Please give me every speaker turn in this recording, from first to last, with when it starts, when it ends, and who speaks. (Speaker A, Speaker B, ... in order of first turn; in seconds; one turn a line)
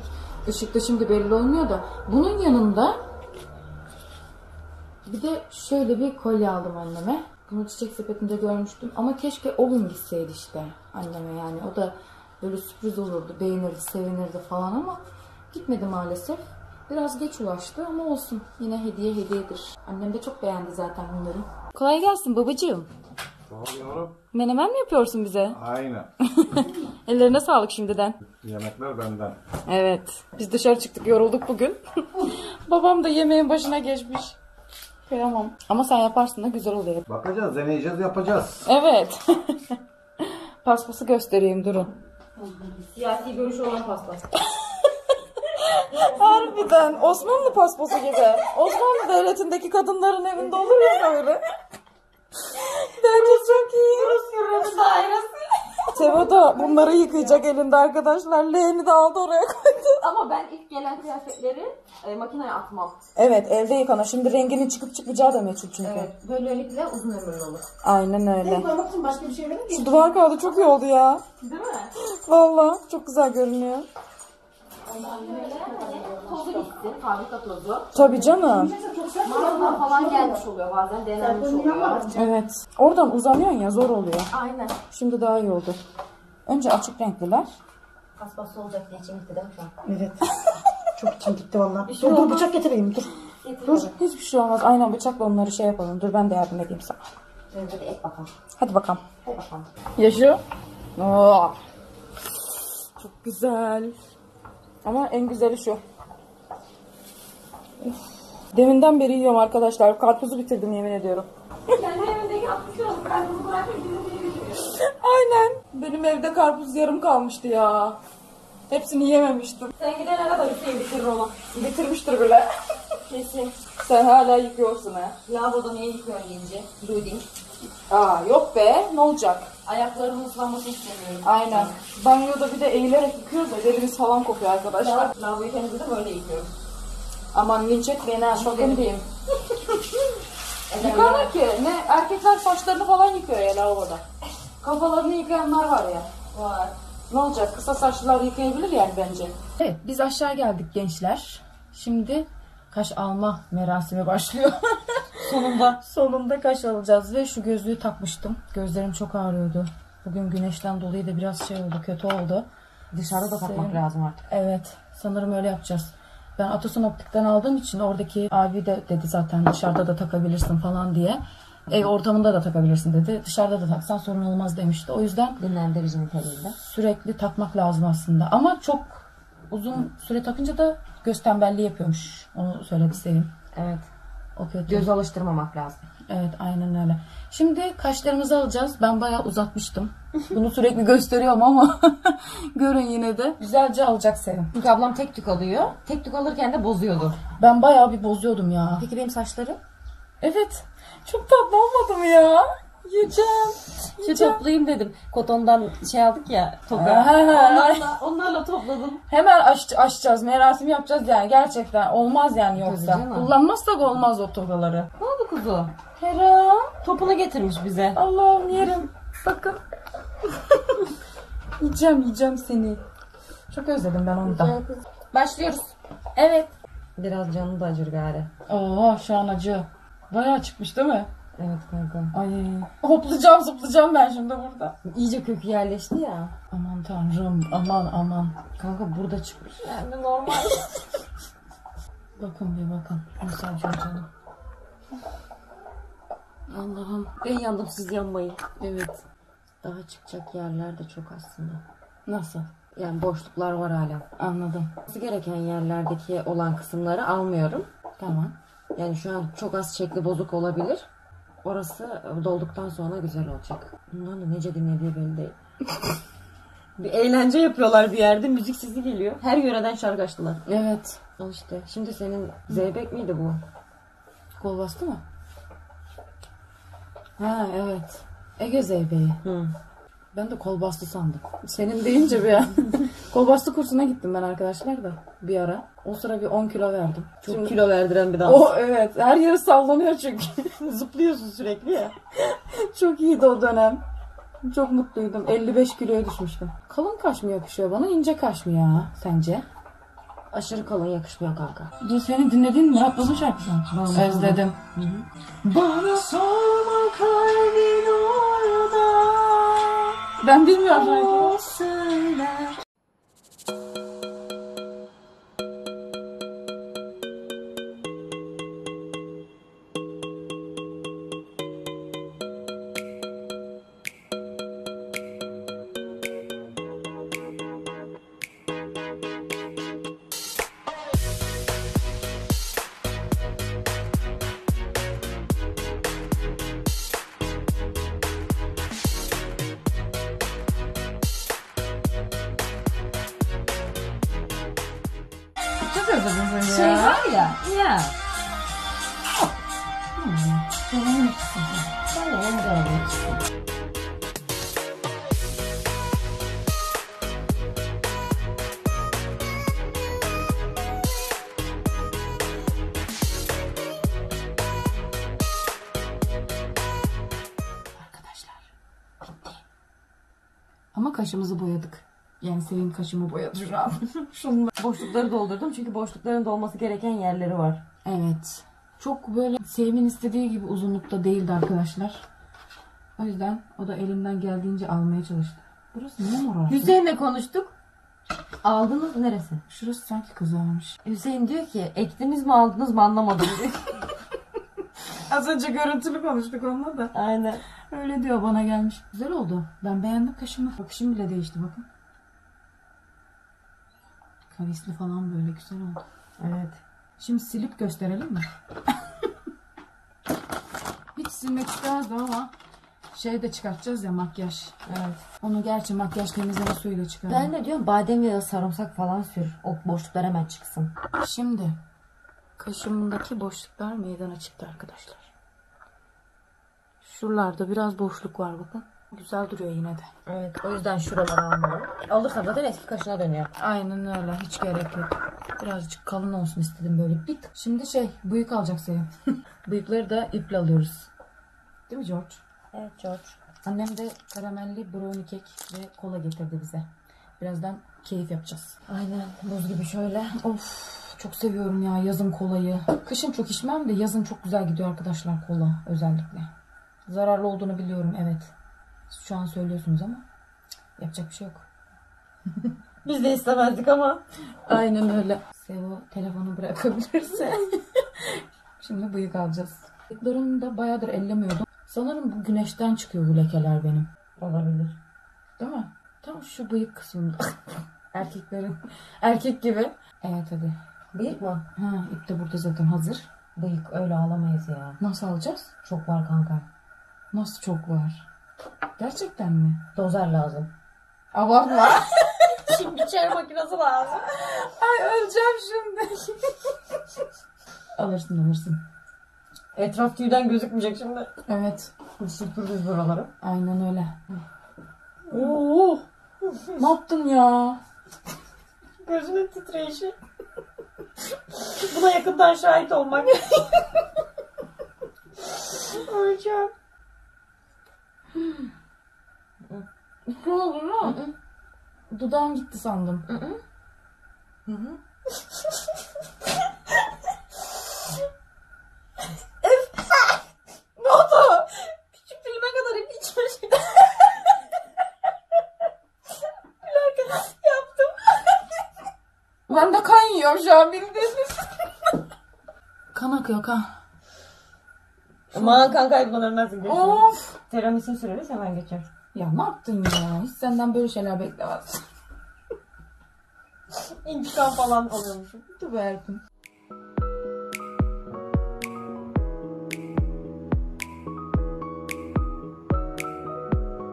Speaker A: 0.4-3.0
Speaker A: 5.0-22.9
Speaker B: 23.5-24.2
Speaker A: 24.3-25.6
Speaker B: 25.5-26.1
Speaker A: 26.2-28.2
Speaker B: 28.3-29.4
Speaker A: 29.7-34.4
Speaker A: 35.1-37.0
Speaker B: 37.0-38.6
Speaker A: 38.6-41.9
Speaker C: 42.5-44.3
Speaker A: 44.5-51.4
Speaker C: 50.5-50.8
Speaker A: 52.5-54.2
Speaker C: 53.1-57.4
Speaker A: 55.9-60.0
Speaker C: 60.0-63.0
Speaker A: 63.1-66.1
Speaker C: 65.8-67.6
Speaker A: 67.8-68.7
Speaker D: 68.4-70.5
Speaker A: 69.7-71.2
Speaker C: 71.4-71.9
Speaker A: 72.0-73.8
Speaker C: 74.9-78.2
Speaker D: 75.1-76.7
Speaker A: 77.9-78.7
Speaker D: 78.2-80.4
Speaker C: 79.2-82.1
Speaker D: 81.2-82.3
Speaker A: 82.1-84.3
Speaker C: 84.3-84.8
Speaker A: 84.9-85.8
Speaker A: 86.5-87.5
Speaker C: 88.2-89.7
Speaker D: 89.8-90.2
Speaker D: 91.0-93.1
Speaker C: 91.8-92.6
Speaker C: 93.4-93.9
Speaker A: 93.7-97.0
Speaker C: 97.5-98.3
Speaker A: 98.6-99.0
Speaker C: 99.2-99.7
Speaker A: 100.0-100.4
Speaker A: 101.0-101.6
Speaker A: 103.0-104.0
Speaker A: 104.8-105.8
Speaker A: 108.5-111.3
Speaker C: 111.7-114.7
Speaker A: 114.6-118.0
Speaker A: 118.7-119.7
Speaker C: 119.7-121.5
Speaker A: 121.5-122.5
Speaker C: 123.0-123.5
Speaker A: 123.8-125.2
Speaker C: 125.2-127.3
Speaker A: 127.9-129.5
Speaker C: 129.7-131.8
Speaker A: 131.2-135.1
Speaker C: 134.8-136.5
Speaker A: 137.3-139.0
Speaker C: 138.3-138.9
Speaker C: 140.7-141.3
Speaker A: 140.8-144.0
Speaker A: 144.6-146.1
Speaker C: 146.3-146.8
Speaker A: 147.1-162.5
Speaker C: 155.2-155.8
Speaker C: 162.9-164.3
Speaker A: 163.1-175.4
Speaker C: 175.4-176.6
Speaker A: 176.6-183.3
Speaker C: 183.5-183.8
Speaker A: 184.3-184.9
Speaker C: 184.7-185.8
Speaker A: 186.1-194.5
Speaker C: 194.5-197.2
Speaker A: 197.4-198.8
Speaker C: 198.8-199.6
Speaker A: 200.2-204.4
Speaker C: 204.0-209.0
Speaker A: 206.7-207.9
Speaker A: 209.1-214.9
Speaker C: 212.5-213.3
Speaker C: 215.0-215.7
Speaker A: 216.0-216.7
Speaker C: 216.8-218.0
Speaker A: 217.9-219.6
Speaker A: 220.2-220.9
Speaker A: 221.6-222.8
Speaker A: 223.5-224.6
Speaker C: 224.2-225.7
Speaker A: 226.1-226.5
Speaker C: 226.9-228.3
Speaker A: 228.5-231.1
Speaker C: 231.3-232.1
Speaker A: 232.1-234.8
Speaker C: 234.8-236.3
Speaker A: 236.5-238.4
Speaker C: 238.6-240.7
Speaker A: 242.2-244.1
Speaker A: 246.5-247.2
Speaker C: 247.2-248.4
Speaker A: 248.6-249.0
Speaker C: 249.6-251.6
Speaker A: 252.1-252.5
Speaker C: 252.7-254.1
Speaker A: 254.2-254.7
Speaker C: 254.9-257.7
Speaker A: 258.0-258.4
Speaker C: 258.7-260.9
Speaker C: 261.4-265.4
Speaker C: 266.8-270.4
Speaker A: 270.4-271.0
Speaker C: 271.2-273.4
Speaker A: 274.4-275.0
Speaker A: 277.2-279.2
Speaker C: 279.2-279.5
Speaker A: 280.1-287.6
Speaker C: 287.2-288.5
Speaker A: 288.2-290.6
Speaker C: 290.6-291.9
Speaker A: 292.1-293.8
Speaker A: 294.4-299.4
Speaker C: 300.3-301.7
Speaker A: 301.8-304.8
Speaker C: 303.7-305.0
Speaker A: 305.4-306.0
Speaker C: 305.8-310.0
Speaker A: 310.2-311.4
Speaker C: 310.7-312.5
Speaker A: 345.6-347.4
Speaker C: 346.4-347.9
Speaker A: 349.9-351.7
Speaker C: 351.8-353.2
Speaker A: 367.7-369.4
Speaker A: 370.7-374.5
Speaker C: 374.6-377.6
Speaker A: 377.8-382.0
Speaker A: 383.0-386.8
Speaker C: 386.5-387.5
Speaker C: 388.4-389.4
Speaker A: 389.5-390.8
Speaker C: 390.8-393.8
Speaker A: 395.1-396.9
Speaker C: 396.9-397.4
Speaker A: 397.7-401.7
Speaker A: 404.3-405.8
Speaker C: 406.2-406.6
Speaker A: 407.0-409.0
Speaker A: 410.9-412.3
Speaker A: 412.9-414.6
Speaker C: 414.6-415.0
Speaker A: 415.2-417.3
Speaker C: 417.1-420.7
Speaker A: 421.0-421.6
Speaker A: 422.4-425.1
Speaker A: 426.8-429.9
Speaker C: 430.1-433.3
Speaker A: 433.4-438.9
Speaker A: 439.4-440.9
Speaker A: 441.7-442.2
Speaker C: 442.5-443.2
Speaker A: 443.4-446.7
Speaker A: 447.2-448.8
Speaker C: 448.8-449.8
Speaker A: 449.7-456.3
Speaker A: 456.9-458.3
Speaker A: 458.9-460.0
Speaker A: 460.8-461.4
Speaker C: 462.8-464.0
Speaker A: 464.5-473.9
Speaker C: 474.2-474.8
Speaker A: 475.4-480.6
Speaker C: 480.9-481.4
Speaker A: 481.5-483.1
Speaker C: 483.4-484.8
Speaker A: 484.8-485.5
Speaker C: 485.6-486.5
Speaker A: 487.1-488.1
Speaker A: 488.8-489.6
Speaker C: 489.7-490.5
Speaker A: 491.1-492.6
Speaker C: 492.4-494.1
Speaker A: 494.1-496.4
Speaker A: 497.7-498.6
Speaker C: 499.5-501.1
Speaker A: 501.2-501.7
Speaker C: 502.0-503.1
Speaker A: 503.2-504.1
Speaker A: 505.1-505.8
Speaker C: 505.1-505.4
Speaker C: 506.2-506.6
Speaker A: 506.5-507.6
Speaker C: 508.8-509.9
Speaker C: 511.4-513.3
Speaker C: 515.6-516.5
Speaker A: 520.1-521.0
Speaker C: 520.8-521.1
Speaker A: 521.9-523.0
Speaker C: 523.1-523.4
Speaker A: 524.5-524.8
Speaker A: 530.8-531.5
Speaker C: 531.9-533.8
Speaker C: 536.6-538.1
Speaker A: 539.5-541.5
Speaker A: 542.9-543.7
Speaker A: 545.3-545.7
Speaker C: 545.3-548.9
Speaker A: 546.6-547.2
Speaker A: 549.1-551.8
Speaker C: 553.9-555.4
Speaker A: 555.4-556.2